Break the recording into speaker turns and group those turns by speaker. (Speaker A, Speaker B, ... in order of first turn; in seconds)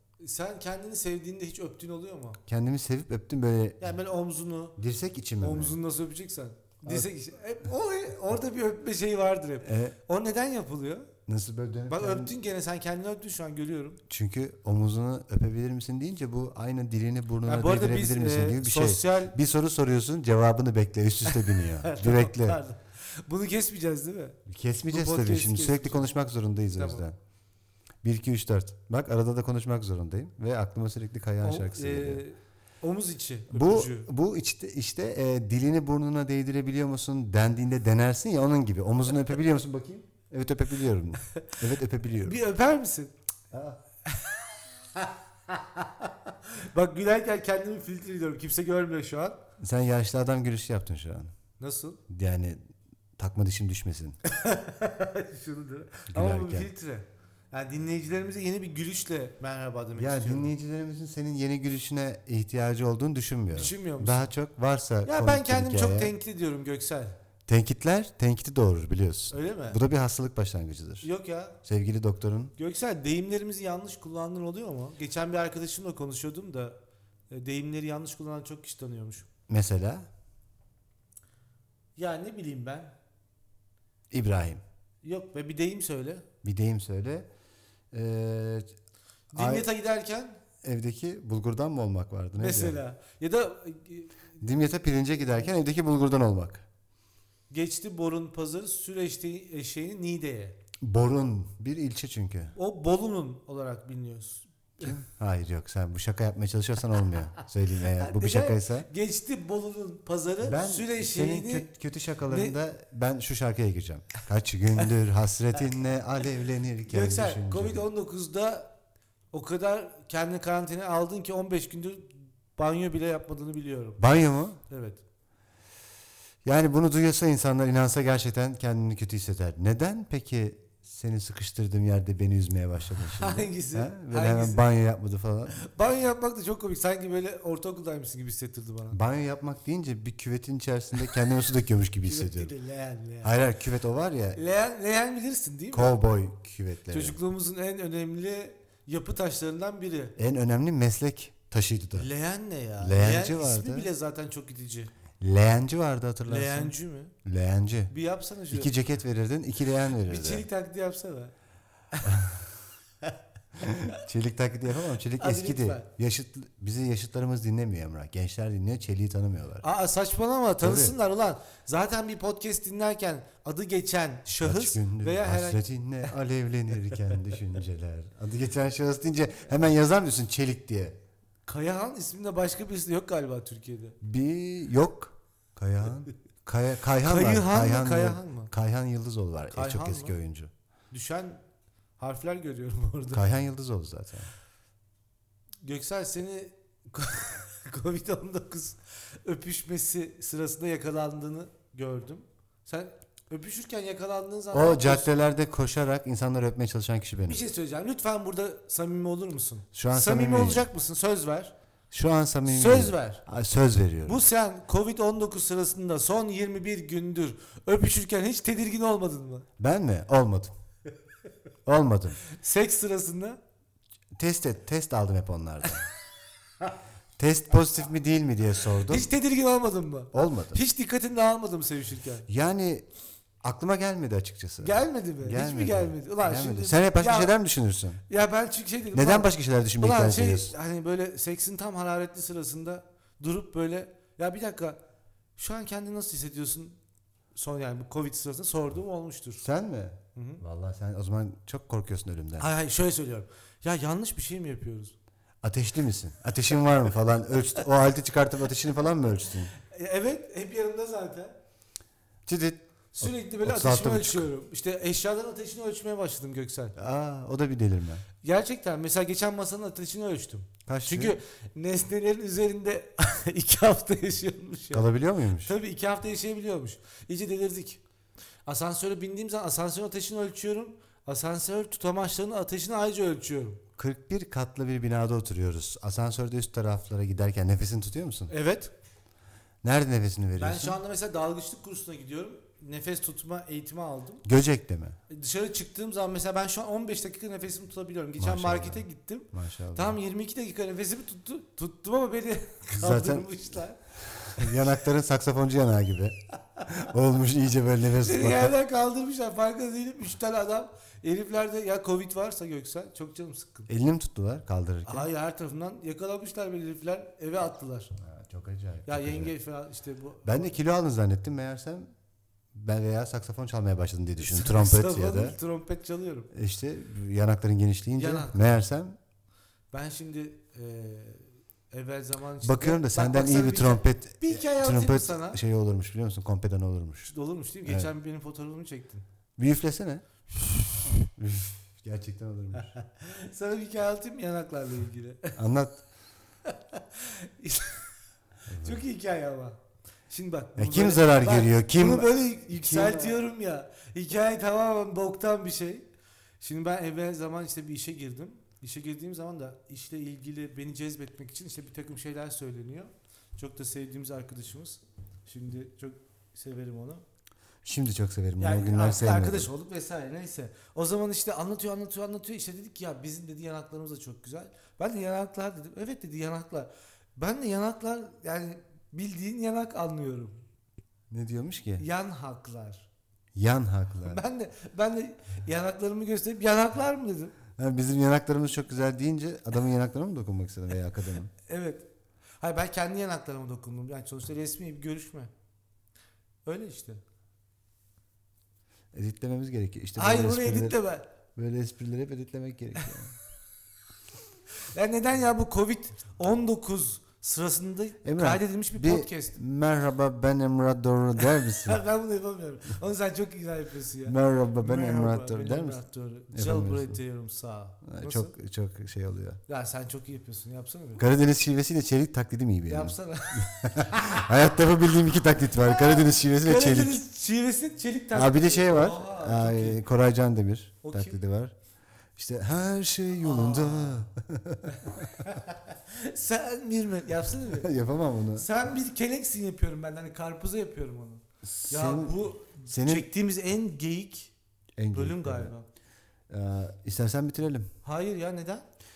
Speaker A: 0.2-2.4, 3.8-4.8, 5.4-11.1, 11.9-14.0, 17.4-19.4, 21.3-26.2, 26.7-27.0, 31.4-34.1, 41.3-41.6, 42.2-43.1, 44.1-44.4, 45.0-49.4, 51.6-52.0, 54.2-60.5, 63.5-64.2, 65.0-67.2, 69.3-69.8, 71.0-71.6, 72.6-76.8, 77.3-79.2, 82.0-82.9, 85.0-86.2, 89.3-90.4, 92.4-94.2, 97.5-100.6, 102.5-104.9, 107.9-111.7, 112.3-112.5, 116.8-118.7, 119.3-124.0, 124.7-125.0, 133.1-134.7, 135.6-139.0, 142.1-143.3, 144.3-146.0, 146.9-150.1, 151.9-154.9, 156.3-157.1, 157.9-158.7, 160.1-161.3, 161.9-162.2, 165.2-165.9, 169.6-175.6, 181.4-184.0, 187.0-188.5, 189.5-190.1, 190.9-191.4, 192.0-193.2, 195.6-205.1, 207.2-211.5, 212.4-213.2, 214.1-219.5, 222.3-223.4, 228.8-232.3, 234.6-237.3, 238.1-244.8, 245.4-246.8, 247.3-249.4, 250.1-250.4, 252.4-254.9, 259.6-261.3, 262.9-266.7, 268.2-274.9, 275.4-277.8, 278.4-283.6, 288.3-288.7, 290.4-294.2, 295.1-303.8, 308.0-313.7, 314.9-317.9, 318.9-320.5, 324.2-326.3, 328.0-328.5, 329.7-335.4, 337.1-339.0, 342.6-345.4, 346.4-347.9, 348.6-349.6, 350.1-355.9, 356.4-367.0, 368.4-380.4, 381.8-382.9, 384.0-387.3, 391.4-391.9, 392.4-395.3, 396.4-397.0, 399.9-401.1, 404.7-409.4, 411.2-418.3, 419.5-421.0, 422.7-424.4, 425.6-429.8, 430.8-431.2, 433.2-434.0, 434.7-437.7, 438.3-444.3, 444.9-445.6, 447.8-448.6
Speaker B: 2.5-3.9, 4.8-5.8, 9.6-10.0, 11.3-12.3, 14.1-22.6, 24.4-27.2, 28.0-32.2, 33.5-42.4, 43.5-43.8, 49.6-51.3, 52.1-52.6, 53.2-54.2, 56.1-56.7, 60.0-66.1, 67.5-71.1, 71.6-72.5, 79.5-80.1, 84.1-84.6, 86.4-87.3, 87.9-88.7, 89.3-89.7, 90.6-92.8, 94.4-96.6, 100.8-102.5, 104.8-108.9, 110.4-117.8, 124.0-124.6, 126.4-135.6, 138.9-142.5, 143.2-144.4, 145.7-147.2, 150.2-152.1, 152.8-153.9, 155.2-157.9, 158.5-160.4, 162.0-162.4, 163.6-169.7, 170.6-170.9, 174.4-181.0, 184.0-190.5, 193.1-194.3, 204.5-207.4, 209.7-210.7, 211.9-214.2, 219.6-220.5, 221.6-222.2, 224.2-225.8, 227.2-229.1, 230.1-230.6, 232.3-232.9, 233.4-238.0, 238.9-240.5, 249.4-252.5, 255.4-259.5, 262.2-264.3, 266.8-268.0, 270.7-271.2, 274.7-275.5, 283.8-288.3, 289.6-290.8, 294.2-295.0, 298.2-300.0, 302.7-303.4, 304.0-308.5, 313.7-315.1, 318.0-319.3, 320.2-321.9, 322.5-325.4, 326.3-329.0, 332.4-337.1, 337.6-337.9, 339.4-342.7, 345.4-345.8, 348.5-348.8, 350.6-353.2, 367.6-369.5, 381.1-381.8, 383.3-384.2, 387.6-391.3, 398.9-400.8, 401.4-403.1, 408.0-411.8, 414.0-415.8, 416.3-417.0, 417.8-419.4, 421.0-427.0, 428.1-431.5, 432.1-435.3, 437.4-438.5, 441.4-443.1, 444.8-445.5, 446.3-447.7